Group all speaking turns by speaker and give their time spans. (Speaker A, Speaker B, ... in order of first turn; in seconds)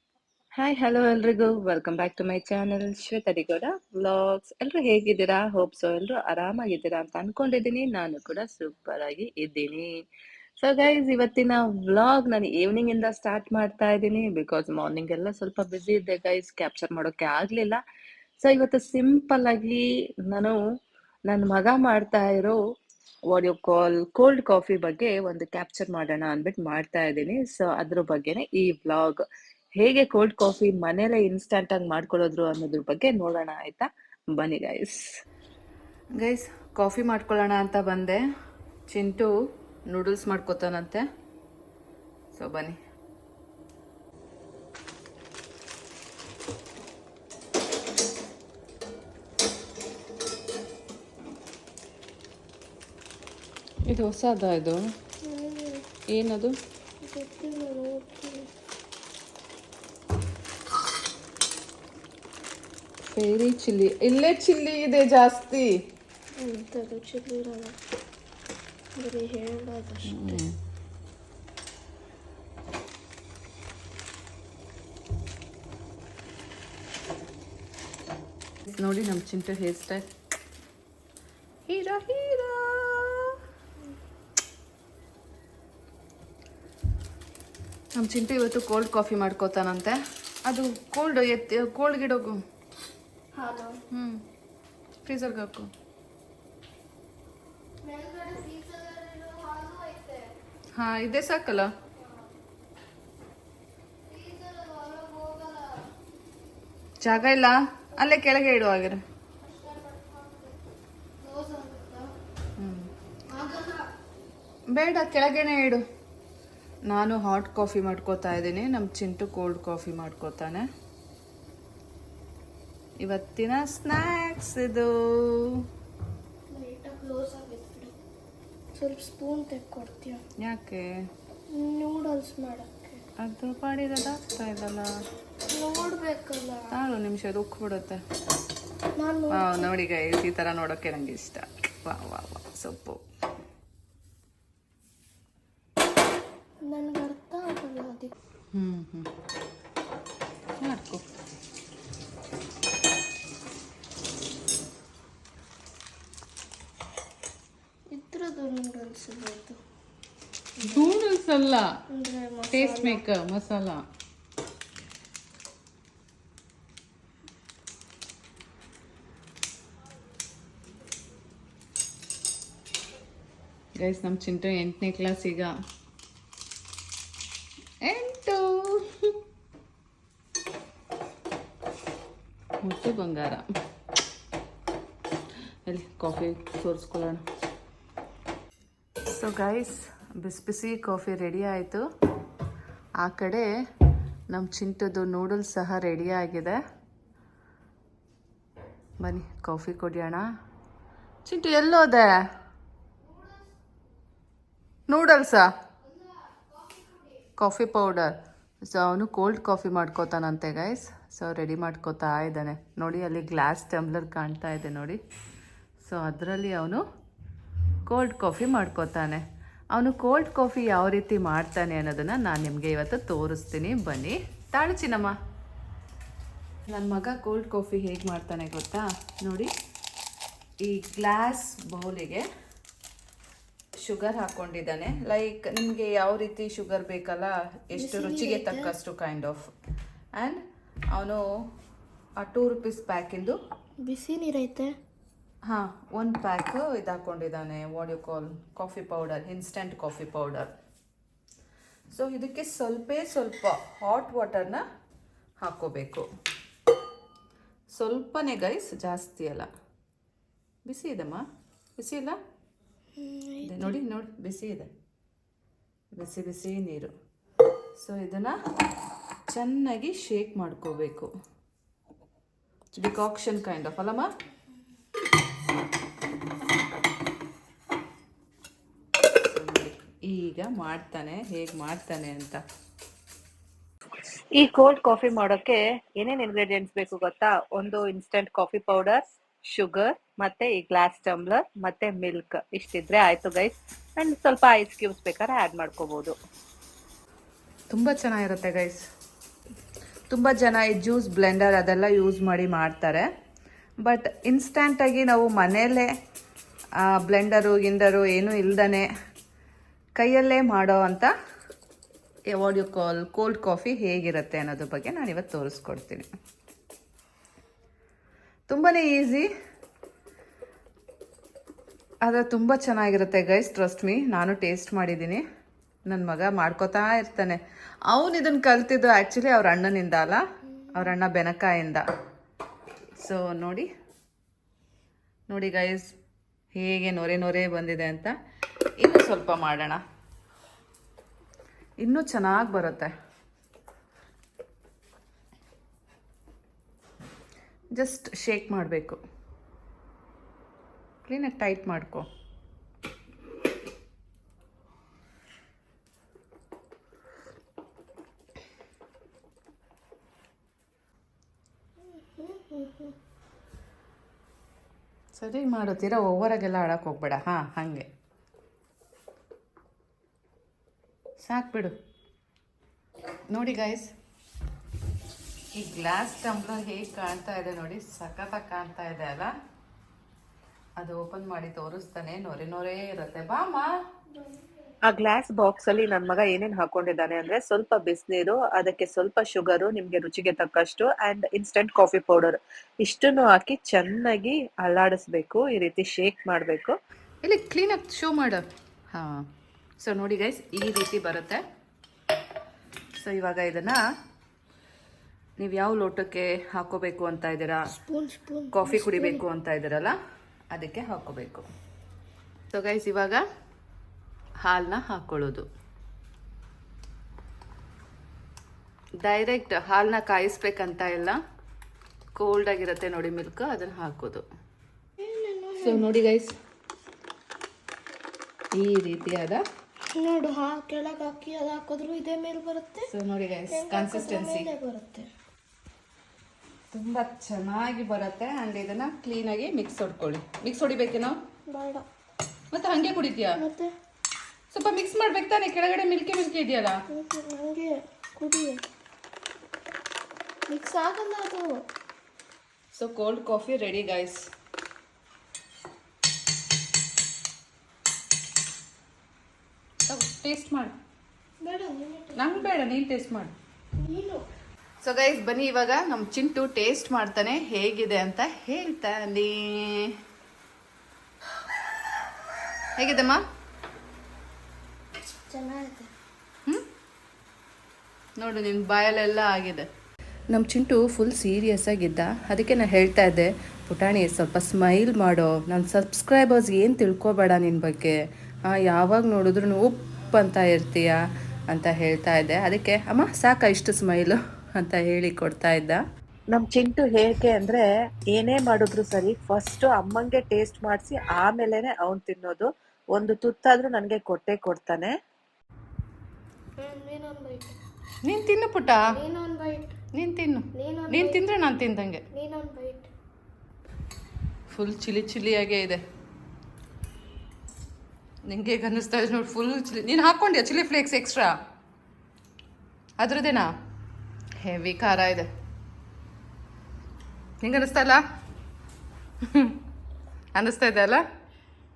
Speaker A: 0.6-9.9, 10.6-17.8, 18.4-20.6, 21.3-22.6, 23.3-29.2, 29.8-35.0, 284.3-296.1, 384.9-396.8, 496.3-504.9
Speaker B: 36.1-38.2, 38.9-39.3, 39.9-41.0, 42.3-42.8, 53.9-54.9, 56.1-56.6, 63.1-65.8, 70.0-70.5, 78.7-80.1, 81.7-83.3, 87.9-92.4, 93.9-94.2, 95.0-95.7, 100.7-101.7, 107.0-109.0, 112.6-112.9, 114.7-115.8, 116.9-120.7, 123.0-125.5, 130.4-130.9, 133.2-134.9, 136.7-138.0, 139.3-143.0, 148.5-149.1, 150.6-151.1, 160.6-161.7, 162.5-163.8, 173.8-175.5, 177.8-179.1, 182.6-183.4, 185.7-187.2, 189.1-191.8, 193.0-193.5, 194.3-196.6, 199.0-200.2, 201.2-202.2, 204.9-205.5, 207.4-215.0, 215.8-216.8, 217.8-225.2, 226.7-229.5, 230.6-232.2, 233.8-239.5, 240.1-241.2, 242.2-243.4, 245.4-250.5, 251.9-254.6, 255.4-256.1, 257.7-259.5, 260.6-261.2, 261.8-262.2, 263.4-264.7, 265.9-266.9, 267.8-268.4, 269.3-271.1, 272.7-274.1, 279.2-282.4, 297.7-298.8, 300.1-303.1, 303.8-305.9, 306.8-308.9, 310.0-311.1, 312.3-316.1, 318.5-319.3, 322.0-325.2, 325.9-331.8, 333.0-333.7, 335.3-335.9, 336.5-338.1, 338.8-339.8, 341.8-342.9, 347.8-349.0, 351.0-352.1, 365.1-367.9, 371.2-371.7, 373.3-373.9, 375.5-379.3, 380.8-383.7, 397.2-399.2, 399.8-401.4, 402.9-403.8, 405.4-407.7, 408.5-409.9, 410.5-411.5, 412.5-413.2, 414.4-415.5, 419.0-421.2, 422.1-424.2, 425.6-426.4, 428.5-429.4, 432.9-434.5, 436.7-441.2, 442.5-443.4, 444.5-446.8, 452.7-454.2, 459.9-460.7, 462.1-463.3, 464.8-469.9, 472.8-473.2, 478.2-479.7, 480.3-495.8, 508.0-509.0, 509.9-512.0, 514.5-515.8, 518.3-521.3, 523.0-523.5, 524.4-525.3, 527.4-528.0, 529.3-529.6, 530.4-531.0
Speaker C: 55.2-55.9, 57.0-58.5, 66.3-67.8, 69.0-70.4, 93.3-93.8, 97.8-100.4, 104.1-105.9, 109.4-110.5, 111.2-112.1, 113.3-113.9, 126.5-127.9, 128.7-130.2, 131.5-133.0, 135.5-136.8, 139.0-139.7, 146.6-148.1, 157.9-159.6, 160.6-161.0, 161.9-163.0, 237.7-238.7, 243.8-244.7, 263.0-263.8, 361.9-362.9, 384.1-384.5, 407.7-409.2, 425.0-425.9, 429.9-432.9, 433.5-435.1, 441.5-441.8, 443.4-443.7, 446.9-448.6, 450.5-451.6, 461.4-462.5, 463.8-464.2, 475.1-475.9, 506.6-507.6, 508.9-509.7, 510.5-511.3, 512.1-512.9